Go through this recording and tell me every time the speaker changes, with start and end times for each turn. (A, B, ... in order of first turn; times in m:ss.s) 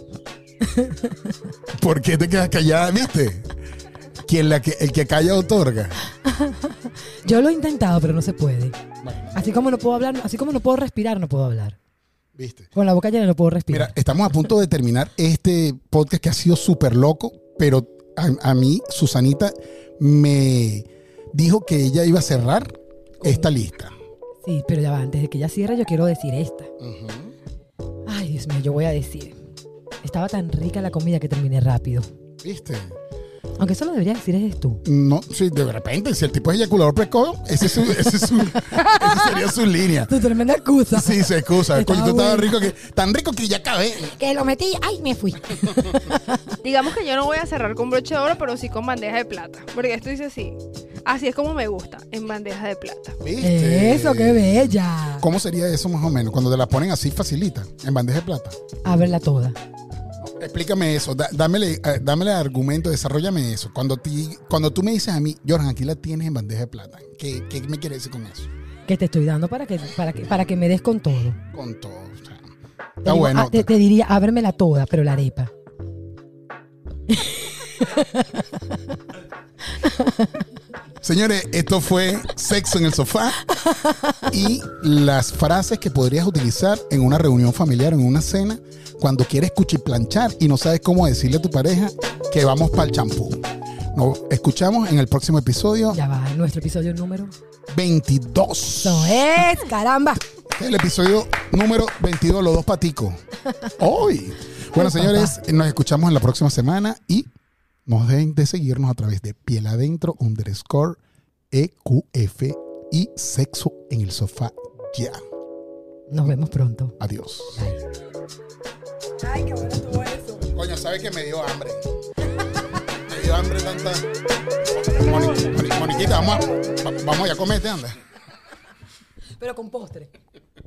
0:00.6-0:01.3 A
0:01.7-0:03.5 B
0:04.2-0:06.0 B
0:06.2-0:08.8 A
0:09.0-0:09.4 B
0:09.3-0:11.8 A
0:12.4-0:12.7 B
0:12.8-0:13.9 A
0:13.7-0:22.7 B
0:23.2-0:24.0 B
0:23.2-0:23.5 A
0:24.4-0:26.7 A
0:26.8-0:27.3 B
0:28.1-0:29.4 A
0:30.0-0:32.1 A
0:32.4-0:33.0 B
0:33.6-0:34.8 A
0:34.8-0:40.1 B
0:40.1-0:42.5 A
0:40.9-0:44.2 B
0:44.2-0:46.6 A
0:45.8-0:46.0 B
0:46.6-0:53.2 C
0:53.2-0:58.6 B
0:53.4-0:55.2 A
0:58.8-0:59.6 A
1:00.3-1:08.5 B
1:08.9-1:11.4 A
1:11.5-1:12.5 B
1:13.0-1:15.5 A
1:13.0-1:13.7 B
1:17.1-1:18.6 A
1:19.8-1:20.3 A
1:21.0-1:23.5 B
1:24.2-1:33.4 B
1:33.9-1:36.0 B
1:35.9-1:37.3 A
1:37.7-1:39.3 B
1:38.8-1:40.2 A
1:40.5-1:43.2 B
1:43.8-1:47.3 B
1:44.7-1:45.4 A
1:47.9-1:51.0 B
1:51.5-1:55.2 B
1:56.1-1:57.0 A
1:57.0-1:57.7 B
1:59.2-2:00.4 A
2:00.5-2:01.9 B
2:02.9-2:04.1 B
2:04.7-2:08.0 B
2:04.8-2:06.8 A
2:09.4-2:10.1 A